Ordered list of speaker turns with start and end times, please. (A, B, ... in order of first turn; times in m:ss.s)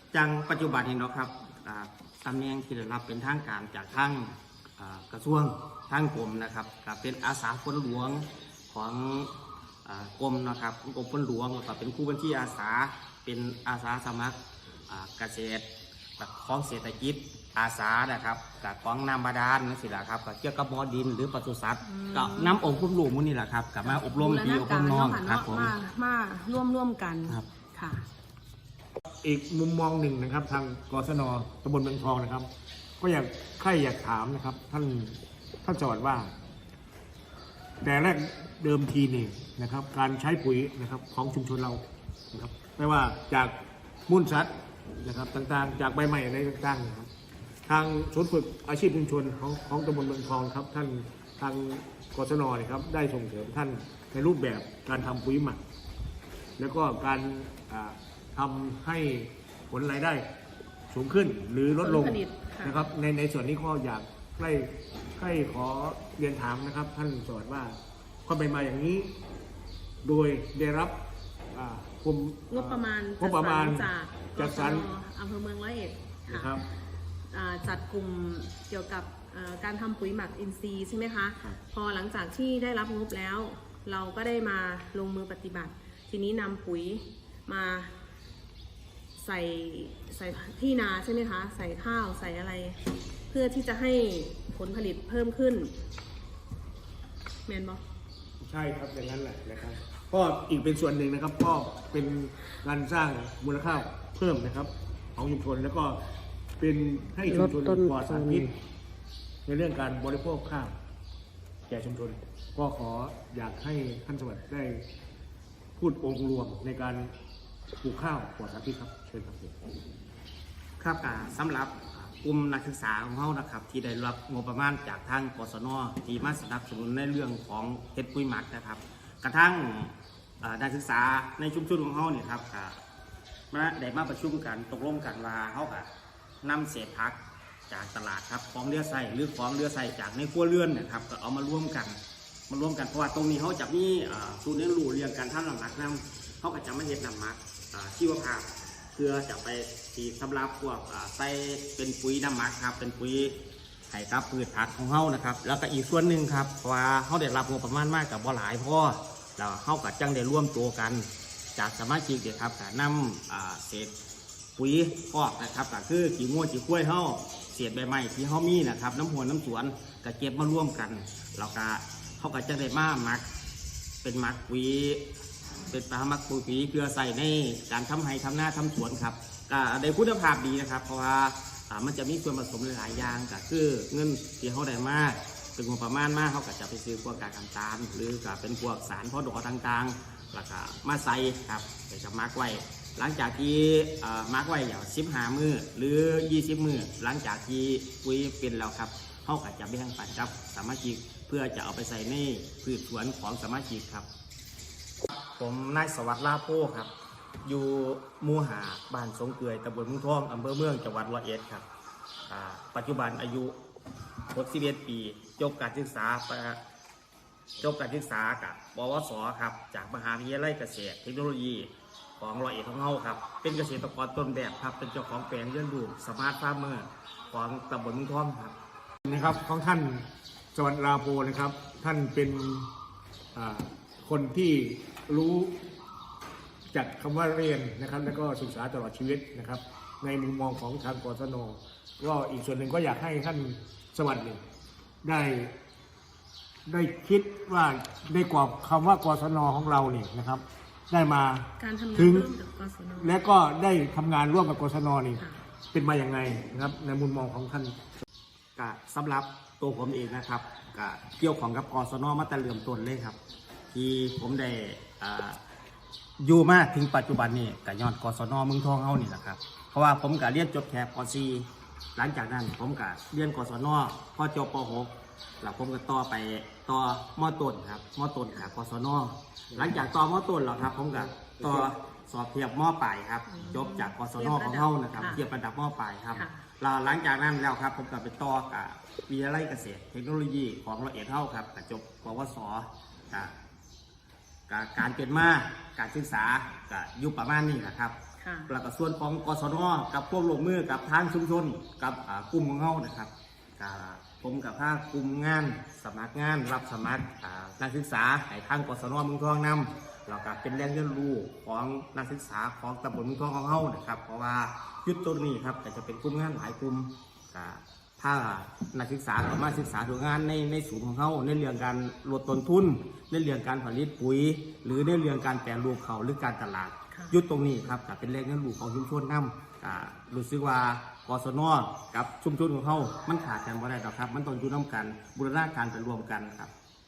0:00.1-0:09.3 A
0:09.8-0:14.4 A
0:14.9-0:15.6 A
0:16.2-0:25.7 A
0:21.8-0:22.6 B
0:23.8-0:28.0 B
0:29.2-0:32.5 C
0:33.0-0:36.3 C
0:37.8-0:43.5 C
0:44.1-0:47.1 C
0:47.6-0:55.6 C
0:56.6-1:00.3 C
1:00.9-1:09.1 C
1:01.8-1:02.9 B
1:10.0-1:11.0 C
1:11.5-1:14.9 C
1:12.5-1:16.6 B
1:16.3-1:16.6 C
1:17.3-1:27.9 B
1:29.2-1:35.7 B
1:37.5-1:37.8 B
1:38.4-1:46.0 C
1:46.6-1:48.6 C
1:49.4-1:50.7 C
1:51.7-1:54.9 C
1:55.8-1:57.1 C
1:57.8-1:59.6 C
2:00.8-2:12.8 A
2:13.5-2:15.9 A
2:16.4-2:17.2 A
2:17.7-2:22.0 A
2:22.5-2:33.3 A
2:33.9-2:43.9 A
2:44.6-2:53.2 A
2:54.0-2:55.0 A
2:55.7-3:24.1 A
3:25.4-3:26.9 A
3:27.4-3:31.6 A
3:32.3-3:33.5 A
3:34.3-3:36.6 A
3:37.6-3:48.5 A
3:49.0-3:52.7 C
3:53.3-3:55.6 C
3:56.7-4:04.4 C
4:05.0-4:05.5 C
4:06.7-4:12.3 C
4:11.6-4:13.2 B
4:13.0-4:17.8 C
4:18.6-4:23.2 A
4:23.7-4:25.4 A
4:26.2-4:53.3 A
4:41.0-4:41.7 C
4:43.3-4:45.2 B
4:46.1-4:46.4 B
4:54.5-4:58.0 A
4:58.2-4:58.5 B
4:58.5-5:36.5 A
5:26.9-5:27.2 B